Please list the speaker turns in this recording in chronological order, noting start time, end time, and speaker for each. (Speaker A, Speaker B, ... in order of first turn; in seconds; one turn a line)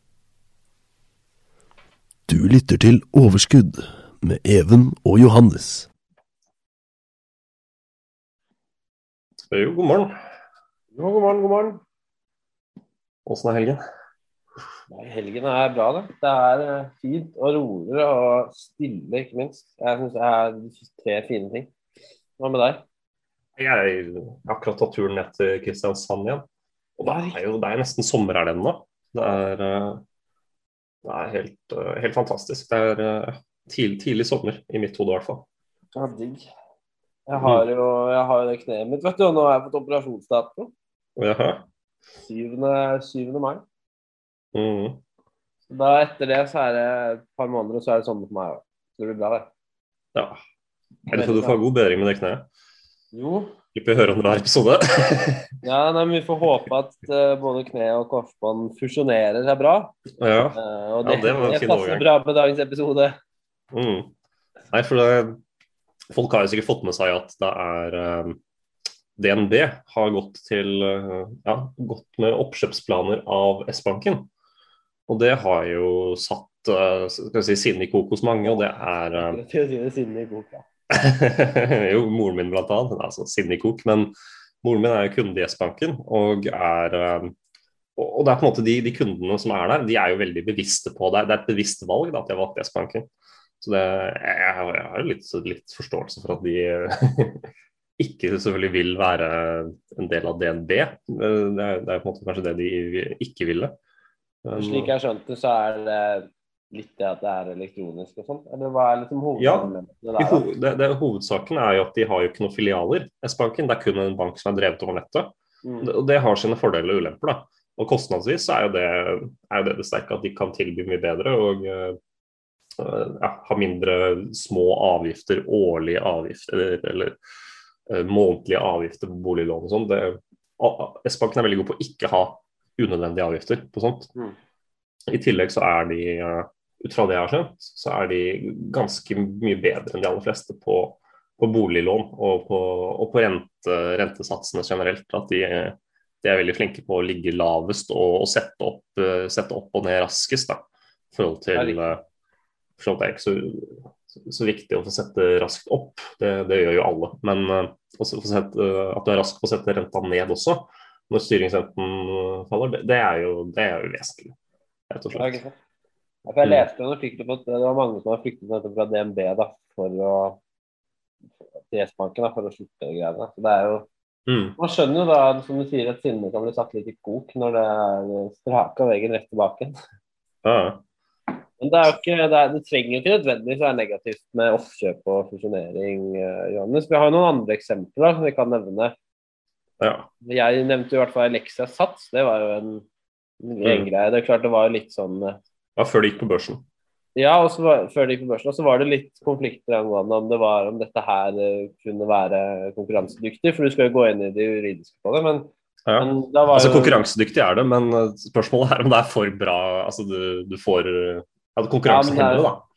Speaker A: 2.3-5.9
Speaker B: 9.5-10.2
Speaker C: 10.9-11.8
Speaker B: 13.2-13.8
Speaker C: 14.9-21.7
Speaker C: 22.4-22.8
Speaker B: 23.6-26.4
Speaker B: 27.0-30.0
Speaker C: 27.0-27.4
Speaker B: 31.0-35.4
Speaker C: 35.9-36.5
Speaker C: 37.3-40.7
Speaker B: 37.4-37.6
Speaker B: 41.2-41.6
Speaker C: 42.2-43.6
Speaker B: 44.5-45.0
Speaker C: 45.7-49.5
Speaker B: 51.1-52.5
Speaker C: 51.1-51.6
Speaker C: 53.1-53.6
Speaker B: 53.7-55.5
Speaker C: 55.6-60.0
Speaker B: 60.2-62.0
Speaker C: 60.5-63.2
Speaker B: 63.7-64.1
Speaker B: 64.7-65.4
Speaker B: 66.1-68.4
Speaker B: 69.2-74.3
Speaker B: 75.1-79.4
Speaker C: 78.4-80.7
Speaker B: 80.9-87.3
Speaker B: 88.0-93.1
Speaker B: 93.6-97.5
Speaker B: 98.0-103.7
Speaker B: 104.4-104.9
Speaker C: 104.6-110.5
Speaker B: 109.4-115.3
Speaker C: 115.6-115.9
Speaker B: 115.8-122.0
Speaker B: 122.8-127.2
Speaker B: 127.9-134.1
Speaker B: 135.1-150.6
Speaker B: 151.1-152.0
Speaker C: 151.5-151.8
Speaker B: 152.8-164.3
Speaker B: 164.9-165.4
Speaker C: 165.1-165.5
Speaker C: 166.3-170.4
Speaker C: 171.7-173.9
Speaker B: 174.3-174.6
Speaker C: 174.6-179.8
Speaker B: 180.4-180.8
Speaker C: 181.6-188.9
Speaker B: 189.8-190.1
Speaker C: 190.2-192.8
Speaker C: 193.4-195.4
Speaker B: 195.8-196.6
Speaker C: 197.2-207.1
Speaker B: 205.8-212.6
Speaker C: 211.8-212.5